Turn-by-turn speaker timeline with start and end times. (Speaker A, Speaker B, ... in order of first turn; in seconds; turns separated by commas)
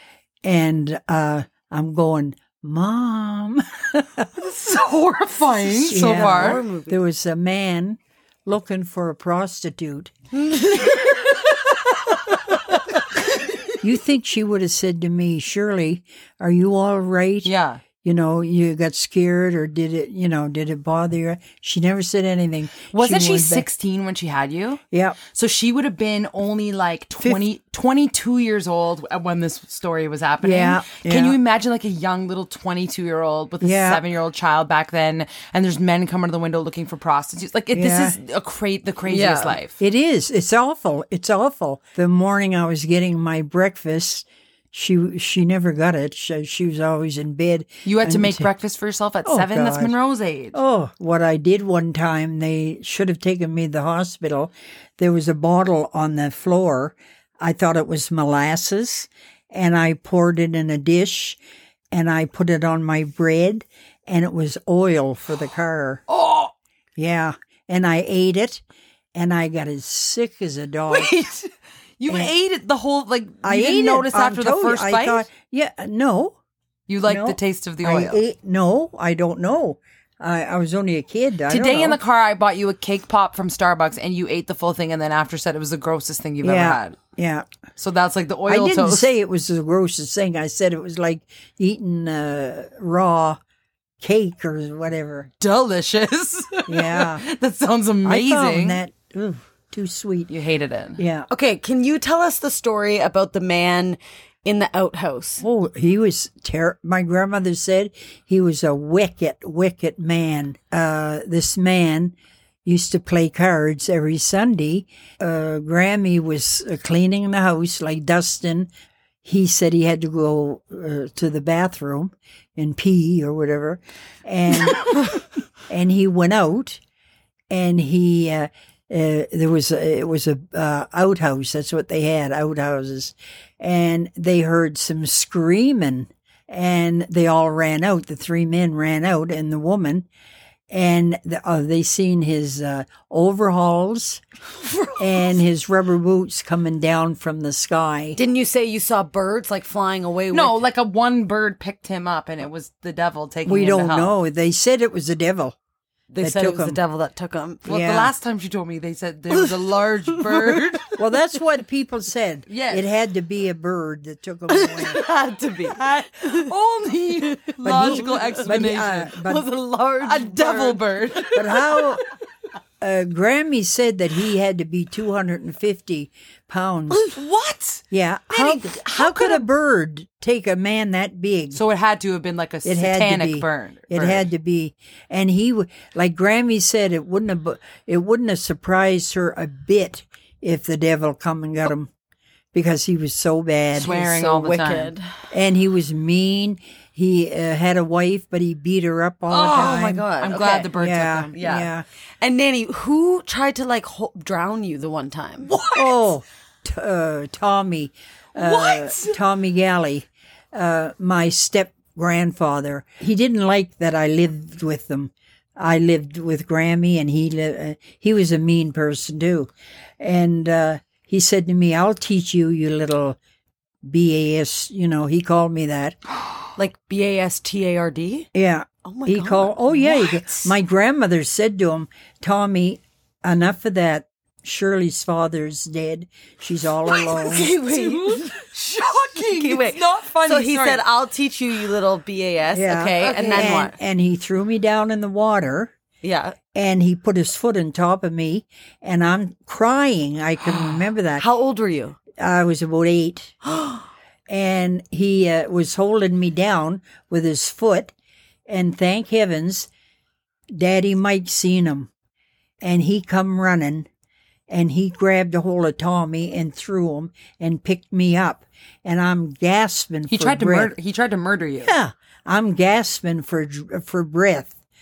Speaker A: 0.4-4.3, Speaker B: 4.4-6.6, Speaker A: 5.7-10.1, Speaker C: 6.0-7.0, Speaker C: 10.6-10.8, Speaker A: 13.8-23.7, Speaker B: 17.4-17.8, Speaker B: 22.9-39.8, Speaker A: 24.9-25.2, Speaker A: 30.4-31.4, Speaker A: 33.6-34.0, Speaker A: 37.7-38.2, Speaker C: 39.1-39.6, Speaker A: 39.8-48.5, Speaker B: 47.9-50.6, Speaker A: 49.2-49.9, Speaker A: 50.5-61.4, Speaker A: 61.9-66.0, Speaker B: 66.1-66.5, Speaker A: 67.0-68.6, Speaker A: 69.2-71.1, Speaker B: 70.9-75.3, Speaker A: 73.4-76.4, Speaker B: 76.9-78.2, Speaker A: 77.1-82.0, Speaker B: 81.5-87.0, Speaker A: 86.4-87.5, Speaker B: 87.8-89.1, Speaker A: 88.5-93.4, Speaker A: 94.0-95.3, Speaker B: 95.4-98.8, Speaker A: 96.7-97.2, Speaker A: 98.0-100.3, Speaker B: 100.3-101.0, Speaker A: 101.0-101.3, Speaker C: 101.3-105.4, Speaker A: 105.4-112.1, Speaker A: 112.7-118.7, Speaker A: 119.2-125.0, Speaker A: 125.7-126.8, Speaker A: 127.5-140.1, Speaker A: 140.7-144.2, Speaker A: 145.0-148.2, Speaker C: 148.2-150.6, Speaker B: 150.3-154.1, Speaker A: 153.5-155.6, Speaker C: 156.1-157.7, Speaker A: 156.2-156.8, Speaker A: 157.7-158.1, Speaker B: 157.7-160.9, Speaker C: 159.3-160.8, Speaker A: 161.0-165.0, Speaker B: 162.5-162.8, Speaker C: 164.5-166.5, Speaker B: 165.7-169.2, Speaker C: 167.3-168.4, Speaker A: 167.6-169.5, Speaker C: 169.2-171.2, Speaker B: 170.0-171.8, Speaker A: 171.3-172.0, Speaker A: 172.8-177.0, Speaker B: 176.9-179.5, Speaker A: 177.9-181.6, Speaker B: 181.5-184.3, Speaker A: 182.6-191.9, Speaker A: 192.5-194.3, Speaker B: 193.8-194.9, Speaker C: 193.8-195.1, Speaker A: 195.3-200.1, Speaker B: 199.3-201.3, Speaker C: 199.4-200.7, Speaker A: 200.8-201.8, Speaker C: 201.3-201.7, Speaker C: 202.2-205.5, Speaker B: 205.5-206.1, Speaker A: 205.7-223.2, Speaker B: 208.3-209.2, Speaker A: 223.8-226.0, Speaker C: 226.6-228.3, Speaker A: 228.3-237.5, Speaker C: 228.8-230.5, Speaker C: 236.9-238.3, Speaker B: 237.7-240.8, Speaker C: 239.2-243.8, Speaker A: 242.5-245.7, Speaker B: 243.0-243.6, Speaker C: 246.0-246.4, Speaker A: 246.5-251.2, Speaker C: 251.2-252.0, Speaker A: 252.2-253.3, Speaker C: 253.5-253.8, Speaker A: 254.3-257.9, Speaker A: 258.5-259.7, Speaker A: 260.5-261.9, Speaker A: 262.6-263.9, Speaker A: 264.5-270.7, Speaker B: 270.1-271.7, Speaker A: 271.6-274.5